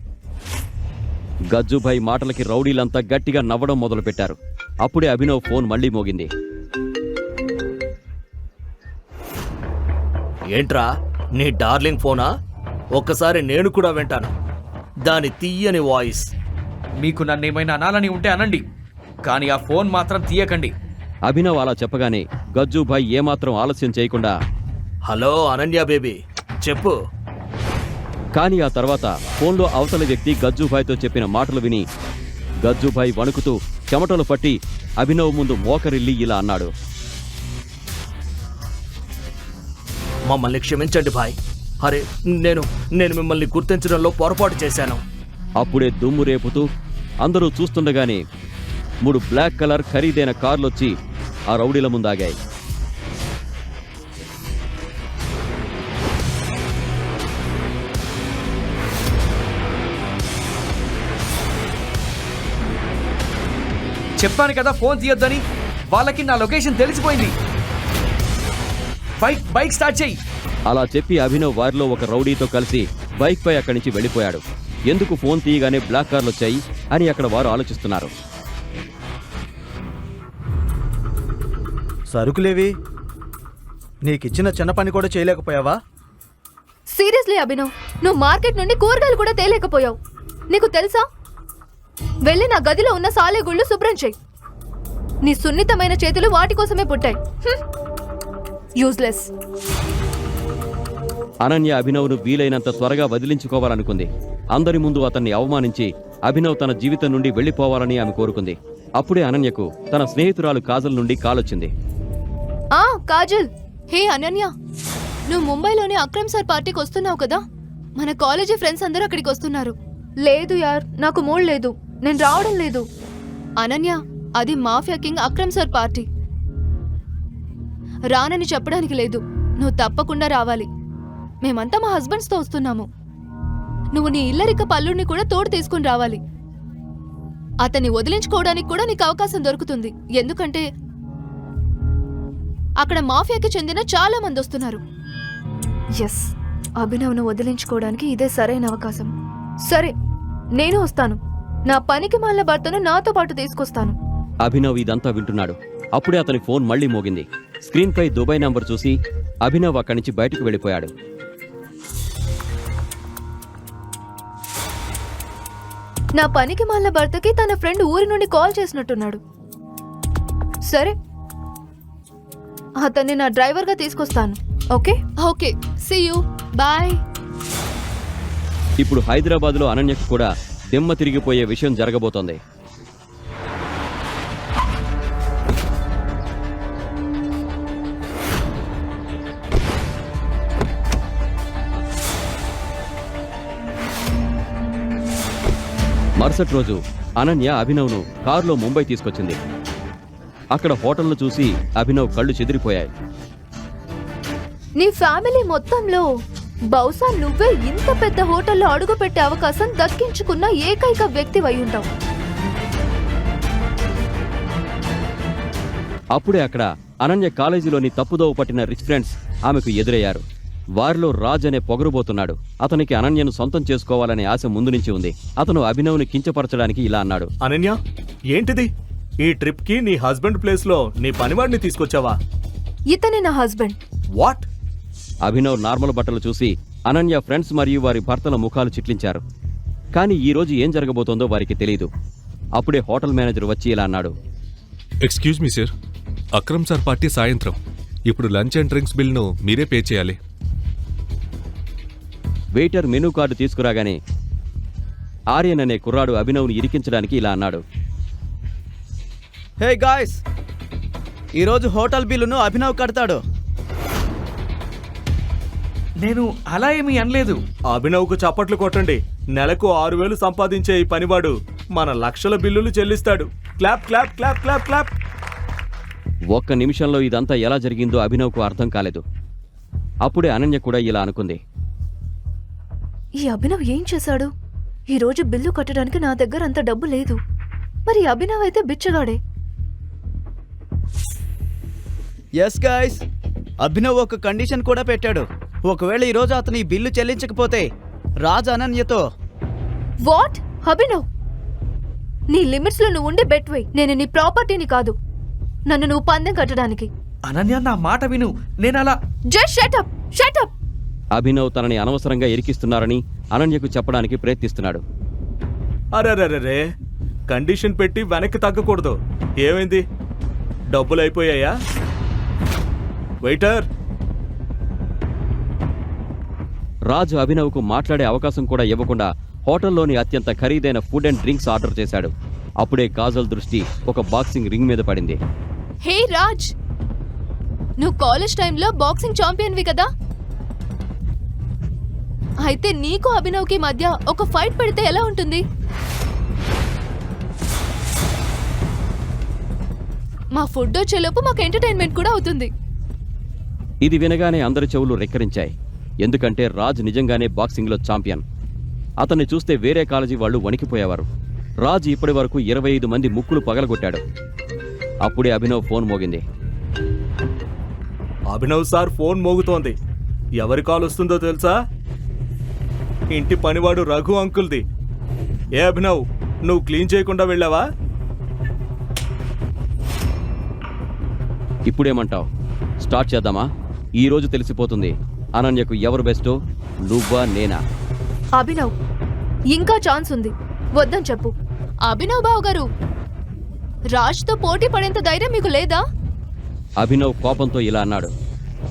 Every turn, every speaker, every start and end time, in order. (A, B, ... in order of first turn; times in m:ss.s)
0:01.5-0:06.3 A
0:10.5-0:12.3 B
0:12.9-0:14.3 B
0:15.0-0:16.3 B
0:17.0-0:18.6 C
0:19.2-0:20.7 C
0:21.3-0:24.4 A
0:25.1-0:26.9 B
0:28.3-0:31.8 A
0:32.6-0:36.7 A
0:40.3-0:45.0 B
0:45.6-0:46.6 A
0:47.2-0:48.2 A
0:49.0-0:50.9 A
0:51.5-0:52.4 A
1:04.2-1:07.3 C
1:09.2-1:10.2 C
1:10.7-1:18.1 A
1:22.1-1:22.7 D
1:24.0-1:25.8 D
1:26.9-1:30.0 E
1:30.5-1:31.0 E
1:32.2-1:34.1 E
1:35.2-1:37.6 E
1:38.8-1:39.3 E
1:41.4-1:51.7 A
1:52.8-1:54.5 E
1:55.3-1:57.4 E
1:58.0-1:59.7 E
2:00.2-2:02.8 E
2:03.6-2:06.0 E
2:08.1-2:10.7 E
2:11.4-2:12.9 E
2:14.0-2:16.2 E
2:17.6-2:20.6 E
2:22.8-2:24.8 E
2:26.0-2:26.3 E
2:26.8-2:29.1 E
2:29.7-2:29.9 E
2:30.6-2:31.2 E
2:31.7-2:33.9 E
2:34.4-2:40.9 A
2:46.2-2:49.2 E
2:50.7-2:50.9 E
2:52.8-2:57.0 E
2:58.8-3:02.4 A
3:16.2-3:19.4 A
3:20.5-3:22.9 A
3:24.8-3:26.0 E
3:26.7-3:31.9 E
3:36.1-3:40.2 A
3:40.8-3:47.3 A
3:47.4-3:47.8 B
3:48.3-3:48.7 B
3:49.2-3:52.2 B
3:52.9-3:53.8 E
3:54.2-3:54.5 B
3:55.2-3:59.2 A
4:00.0-4:01.9 A
4:02.6-4:04.1 A
4:05.0-4:05.7 F
4:06.3-4:10.2 F
4:12.5-4:14.0 A
4:15.3-4:17.6 A
4:19.6-4:20.2 D
4:21.4-4:23.2 D
4:26.0-4:27.4 C
4:27.7-4:34.9 B
4:36.3-4:39.0 A
4:40.0-4:41.4 A
4:43.2-4:44.3 E
4:44.9-4:47.2 E
4:47.9-4:49.2 E
4:52.4-4:53.0 D
4:53.6-4:57.6 D
4:58.2-4:59.0 D
5:00.0-5:01.0 E
5:02.3-5:04.9 E
5:05.7-5:06.9 E
5:07.3-5:09.0 C
5:09.3-5:10.5 E
5:11.1-5:14.8 A
5:15.9-5:16.6 B
5:17.3-5:19.8 B
5:20.7-5:21.5 B
5:23.2-5:23.6 B
5:26.9-5:35.2 A
5:35.8-5:36.5 E
5:37.8-5:39.9 E
5:42.4-5:45.4 E
5:50.4-5:52.5 E
5:53.8-5:55.5 A
5:56.0-5:58.2 A
5:59.0-6:01.1 A
6:01.6-6:04.0 A
6:05.0-6:06.2 A
6:08.3-6:09.8 B
6:10.4-6:11.6 B
6:13.1-6:14.6 B
6:15.6-6:17.6 B
6:21.7-6:22.3 A
6:22.8-6:23.5 A
6:24.0-6:26.4 A
6:26.9-6:27.6 A
6:28.4-6:28.7 E
6:29.5-6:31.3 E
6:31.8-6:32.7 E
6:34.0-6:35.8 E
6:36.8-6:38.1 A